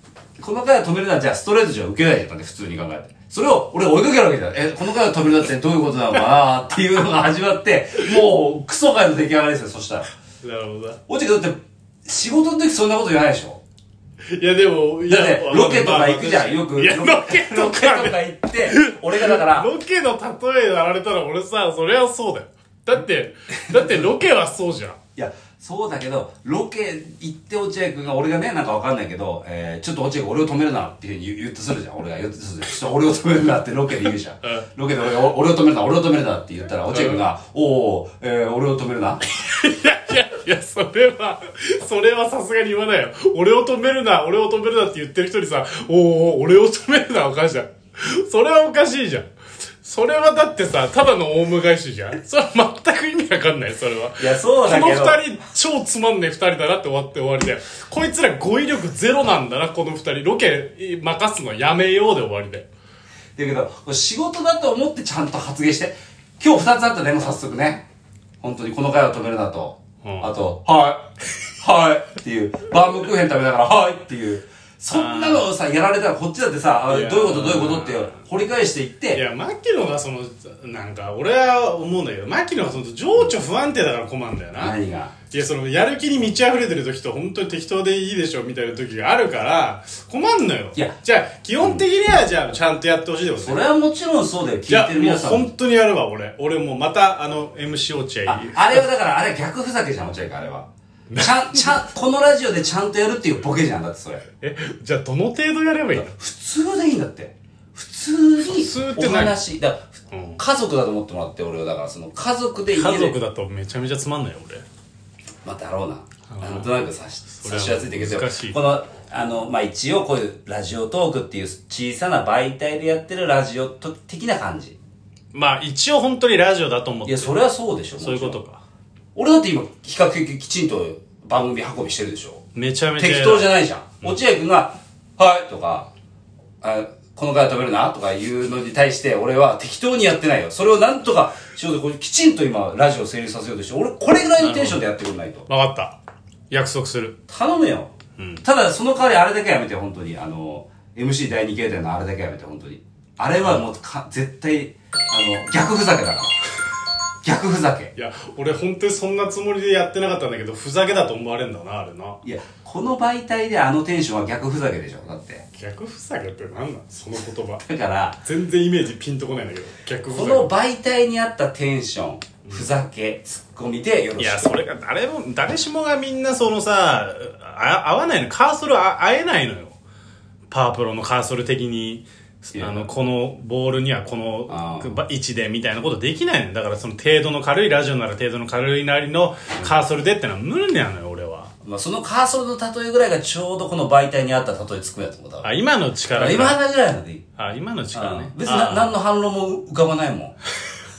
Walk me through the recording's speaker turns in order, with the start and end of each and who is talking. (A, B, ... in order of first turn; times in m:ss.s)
0:00.4-0:10.1 A
0:10.4-0:11.0 B
0:11.1-0:13.6 A
0:14.3-0:25.0 B
0:15.0-0:19.7 A
0:23.7-0:24.1 A
0:25.2-0:39.2 A
0:34.4-0:34.7 B
0:36.9-0:37.2 B
0:39.4-0:49.3 B
0:49.8-1:02.7 B
0:54.2-0:55.2 A
1:03.4-1:07.8 A
1:08.4-1:19.2 A
1:10.0-1:10.4 B
1:14.9-1:15.4 B
1:16.9-1:18.2 B
1:19.1-1:24.8 B
1:24.6-1:25.2 A
1:25.3-1:33.7 B
1:33.4-1:35.5 A
1:34.7-1:38.8 B
1:38.3-1:44.2 A
1:41.1-1:41.8 B
1:44.4-1:46.1 B
1:46.0-1:53.2 A
1:48.4-1:49.4 B
1:50.1-1:50.4 B
1:52.7-1:54.6 B
1:55.4-2:04.8 A
1:56.3-1:56.8 B
1:57.3-1:58.6 B
2:05.3-2:07.4 B
2:07.1-2:08.4 A
2:08.0-2:08.6 B
2:09.2-2:12.4 A
2:12.6-2:14.2 B
2:13.0-2:15.9 A
2:16.6-2:25.5 A
2:24.4-2:24.8 B
2:25.5-2:26.0 B
2:26.5-2:27.2 B
2:27.3-2:36.4 A
2:28.2-2:28.4 B
2:37.2-2:37.9 A
2:38.0-2:42.2 B
2:42.2-2:45.4 A
2:45.6-2:47.6 B
2:47.6-2:48.2 A
2:48.2-2:50.5 B
2:50.1-2:54.6 A
2:54.2-2:59.8 B
3:00.5-3:11.5 B
3:02.5-3:02.9 A
3:04.5-3:05.0 A
3:11.6-3:15.5 A
3:15.4-3:16.6 B
3:16.1-3:17.2 A
3:17.4-3:19.0 B
3:17.9-3:20.4 A